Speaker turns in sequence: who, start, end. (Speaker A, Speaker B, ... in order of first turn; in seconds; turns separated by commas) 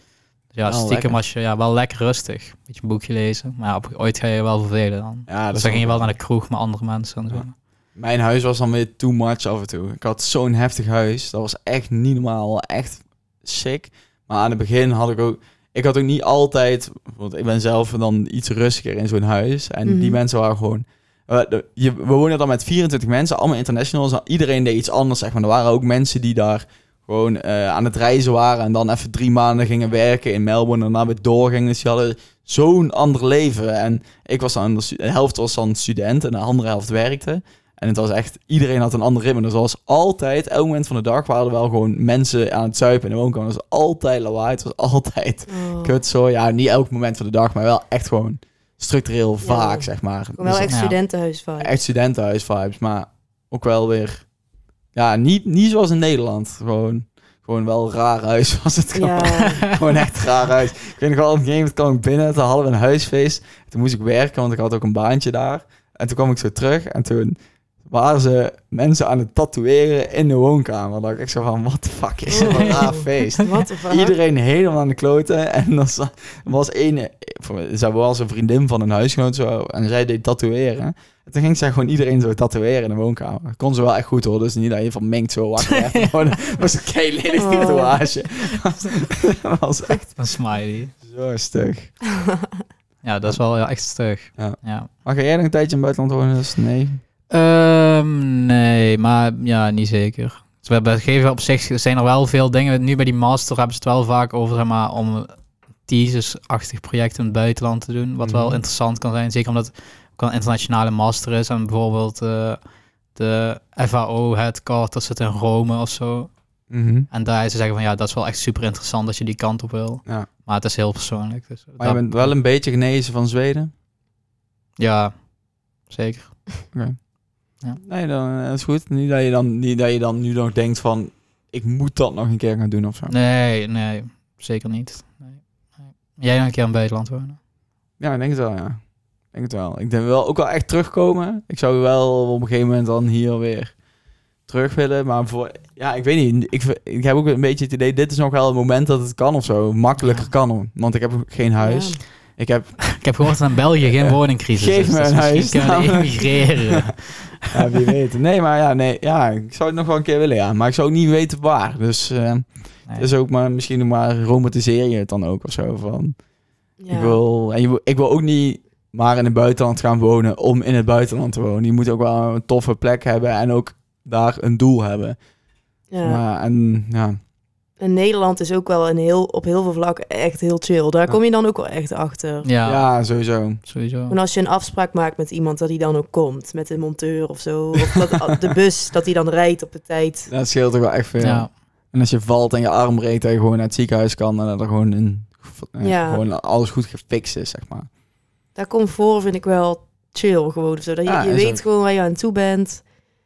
Speaker A: 0.5-7.6, Speaker B: 0.7-1.2, Speaker B: 5.3-6.2, Speaker B: 7.3-50.8, Speaker C: 19.9-20.2, Speaker C: 45.5-46.0, Speaker C: 49.4-51.7, Speaker A: 50.7-51.0, Speaker B: 51.6-54.3, Speaker B: 54.9-90.1, Speaker C: 58.9-59.6, Speaker C: 72.3-74.2, Speaker A: 85.7-86.3, Speaker C: 87.3-88.0, Speaker A: 90.2-91.0, Speaker B: 91.0-92.0, Speaker A: 93.0-94.9, Speaker B: 94.4-97.0, Speaker A: 97.3-112.6, Speaker B: 108.2-108.6, Speaker A: 113.1-122.3, Speaker B: 116.7-117.1, Speaker B: 121.8-123.7, Speaker A: 124.8-126.7, Speaker B: 126.7-133.1, Speaker A: 133.1-137.4, Speaker B: 138.0-143.8, Speaker B: 144.4-153.1, Speaker A: 150.0-150.3, Speaker C: 151.6-152.0, Speaker A: 152.9-157.8, Speaker B: 153.8-156.7, Speaker B: 157.5-166.3, Speaker C: 166.8-167.2, Speaker B: 166.9-175.2, Speaker C: 175.9-176.2, Speaker B: 176.0-177.2, Speaker C: 177.8-182.5, Speaker A: 182.4-183.1, Speaker B: 182.7-183.6, Speaker A: 183.6-184.2, Speaker C: 184.1-190.3, Speaker B: 190.3-197.9, Speaker A: 191.2-191.5, Speaker C: 195.8-196.2, Speaker C: 198.6-202.9, Speaker B: 201.1-201.6